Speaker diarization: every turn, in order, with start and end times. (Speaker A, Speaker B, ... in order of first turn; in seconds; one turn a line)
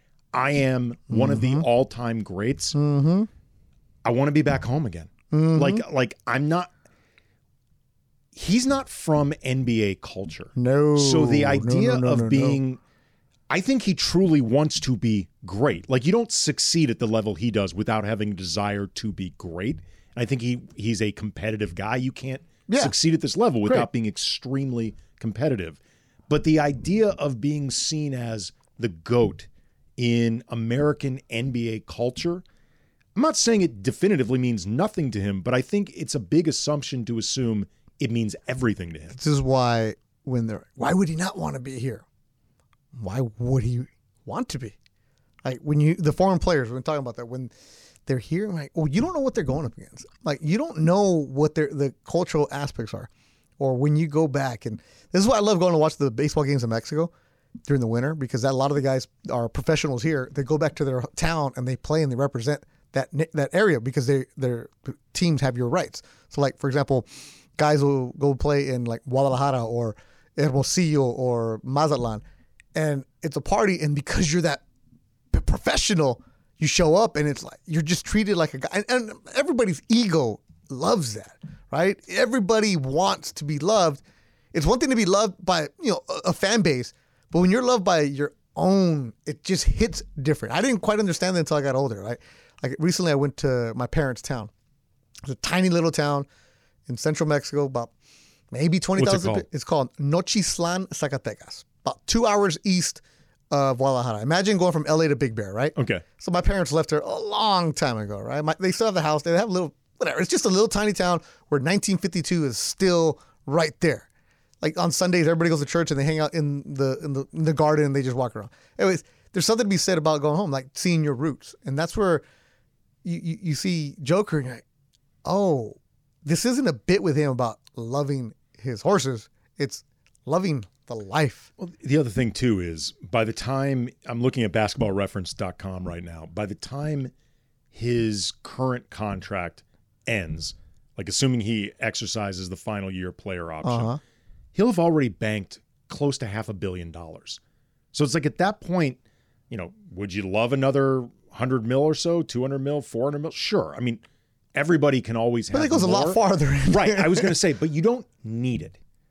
Speaker A: 0.3-2.7
Speaker B: 1.1-1.7
Speaker B: 2.7-3.3
Speaker A: 4.0-6.7
Speaker B: 5.3-5.8
Speaker A: 8.3-12.8
Speaker B: 10.5-12.6
Speaker A: 13.5-32.4
Speaker B: 22.7-22.9
Speaker A: 33.1-39.1
Speaker B: 39.1-42.0
Speaker B: 42.9-44.8
Speaker B: 45.4-47.5
Speaker B: 48.0-57.1
Speaker B: 57.6-72.2
Speaker B: 72.7-74.6
Speaker B: 75.3-84.0
Speaker B: 84.5-94.5
Speaker B: 95.2-96.3
Speaker B: 96.9-97.9
Speaker B: 98.5-114.1
Speaker A: 99.0-99.4
Speaker A: 105.8-106.0
Speaker B: 114.6-122.2
Speaker B: 123.0-124.6
Speaker B: 125.2-131.5
Speaker A: 131.6-137.1
Speaker A: 137.7-143.9
Speaker B: 143.6-144.0
Speaker A: 144.5-147.4
Speaker A: 147.9-149.0
Speaker A: 149.5-154.0
Speaker A: 154.5-158.8
Speaker B: 155.5-157.4